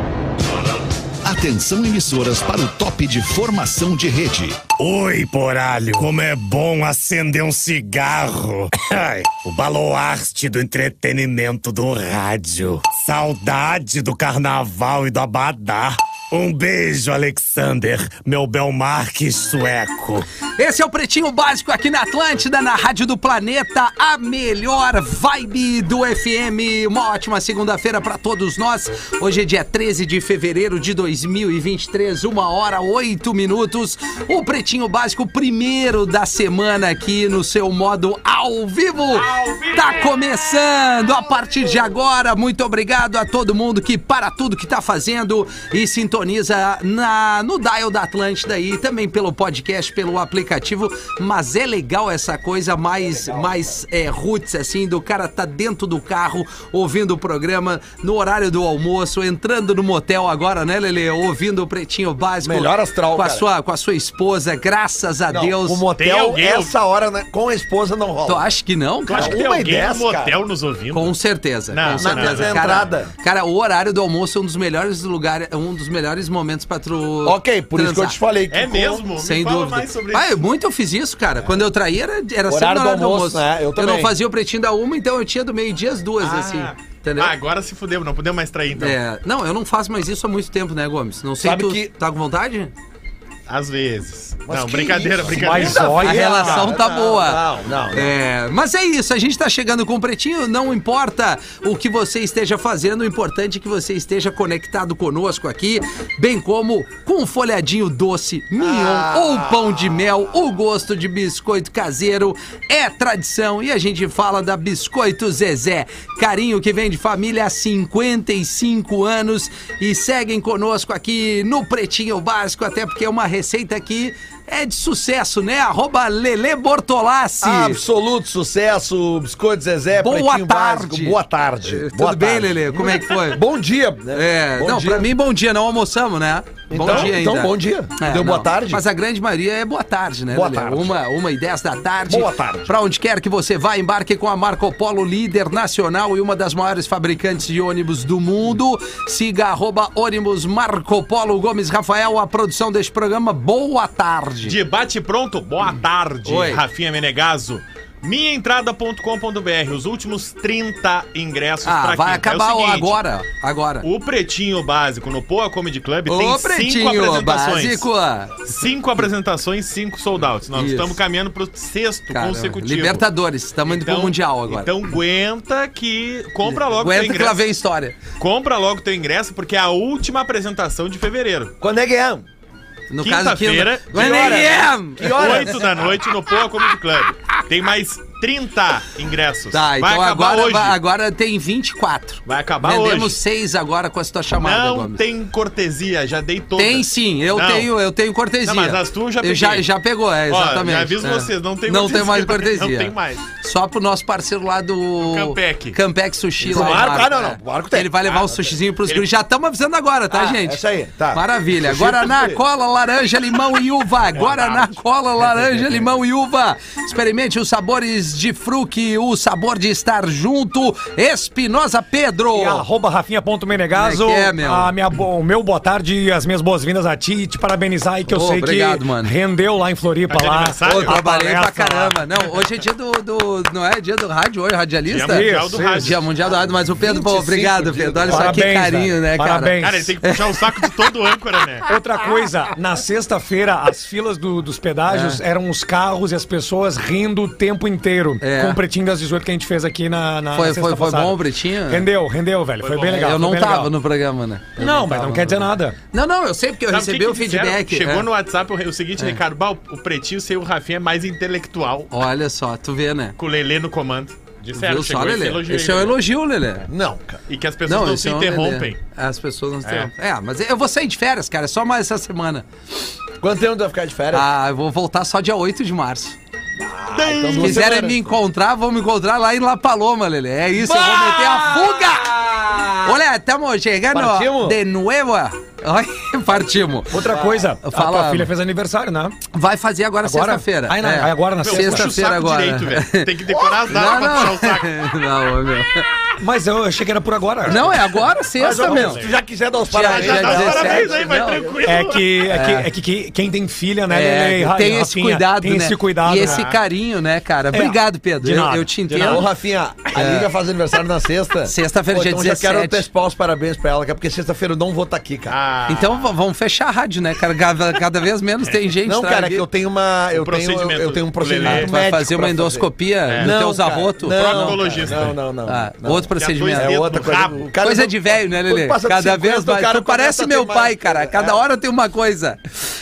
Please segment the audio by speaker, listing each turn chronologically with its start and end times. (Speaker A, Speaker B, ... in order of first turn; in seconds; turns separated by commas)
Speaker A: 1.2-4.7, Speaker B: 4.7-20.3, Speaker C: 20.6-65.8, Speaker D: 39.1-40.1, Speaker E: 53.0-53.8, Speaker E: 62.4-63.5, Speaker E: 65.3-68.5, Speaker D: 66.0-66.7, Speaker C: 68.3-69.4, Speaker D: 69.1-71.2, Speaker E: 69.1-70.4, Speaker C: 70.9-78.2, Speaker D: 71.7-72.9, Speaker E: 72.0-73.1, Speaker E: 77.2-79.1, Speaker D: 78.5-80.4, Speaker C: 79.2-87.3, Speaker E: 82.5-84.2, Speaker D: 86.2-89.0, Speaker C: 88.8-92.7, Speaker E: 91.4-91.9, Speaker D: 93.5-96.0, Speaker E: 94.5-98.1, Speaker F: 95.3-96.7, Speaker C: 96.0-127.8, Speaker E: 108.6-110.3, Speaker E: 127.4-135.1, Speaker C: 129.9-133.4, Speaker C: 134.1-154.6, Speaker E: 136.7-138.8, Speaker D: 136.8-137.1, Speaker E: 140.3-140.9, Speaker E: 142.1-142.7, Speaker D: 154.4-163.0, Speaker C: 156.2-156.6, Speaker C: 161.7-163.9, Speaker D: 163.8-167.9, Speaker C: 166.1-168.4, Speaker D: 168.5-173.1, Speaker C: 170.5-171.0, Speaker C: 172.1-174.7, Speaker D: 173.7-177.4, Speaker C: 176.6-178.0, Speaker D: 178.2-181.5, Speaker E: 181.6-182.2, Speaker C: 182.9-185.5, Speaker D: 183.0-190.8, Speaker E: 183.9-186.0, Speaker C: 189.5-195.0, Speaker D: 192.3-193.2, Speaker D: 194.3-197.7, Speaker C: 196.6-222.7, Speaker D: 198.4-199.7, Speaker D: 200.3-203.2, Speaker D: 205.0-205.8, Speaker E: 206.4-208.3, Speaker D: 206.5-206.9, Speaker E: 210.1-212.4, Speaker D: 214.2-214.8, Speaker F: 222.3-232.0, Speaker C: 223.7-224.7, Speaker C: 228.1-229.1, Speaker D: 230.1-231.0, Speaker C: 230.7-240.5, Speaker D: 234.9-236.0, Speaker F: 235.0-235.9, Speaker E: 236.2-238.5, Speaker F: 238.1-239.9, Speaker D: 239.6-241.7, Speaker F: 241.7-253.7, Speaker C: 244.9-245.2, Speaker C: 248.2-248.6, Speaker C: 250.3-251.9, Speaker D: 252.6-253.2, Speaker C: 252.9-258.1, Speaker F: 254.6-255.8, Speaker D: 256.7-261.9, Speaker C: 261.9-263.2, Speaker D: 263.2-266.0, Speaker C: 264.6-266.7, Speaker E: 266.7-267.2, Speaker D: 267.3-268.8, Speaker C: 267.7-272.4, Speaker D: 269.6-269.9, Speaker E: 273.2-274.3, Speaker C: 274.1-276.2, Speaker E: 276.6-278.2, Speaker D: 276.9-277.8, Speaker C: 277.4-282.2, Speaker E: 280.6-283.0, Speaker C: 282.8-287.0, Speaker E: 283.9-284.6, Speaker F: 286.9-289.2, Speaker E: 286.9-287.5, Speaker C: 287.6-288.3, Speaker C: 289.3-293.2, Speaker F: 290.0-292.0, Speaker D: 291.4-294.9, Speaker E: 293.3-294.4, Speaker C: 293.7-295.9, Speaker F: 296.2-297.9, Speaker C: 297.5-299.0, Speaker E: 298.4-301.6, Speaker D: 298.5-299.2, Speaker C: 299.7-301.5, Speaker D: 299.7-302.3, Speaker F: 301.6-306.4, Speaker C: 302.3-302.7, Speaker C: 303.9-309.3, Speaker D: 306.1-306.6, Speaker F: 307.5-309.3, Speaker E: 309.0-315.4, Speaker C: 309.9-310.3, Speaker C: 311.5-312.8, Speaker D: 315.3-316.1, Speaker C: 315.7-319.5, Speaker E: 318.9-331.4, Speaker D: 320.1-321.7, Speaker C: 321.4-324.6, Speaker D: 323.1-323.3, Speaker D: 324.1-325.2, Speaker C: 325.5-326.8, Speaker D: 326.1-327.5, Speaker C: 327.6-332.4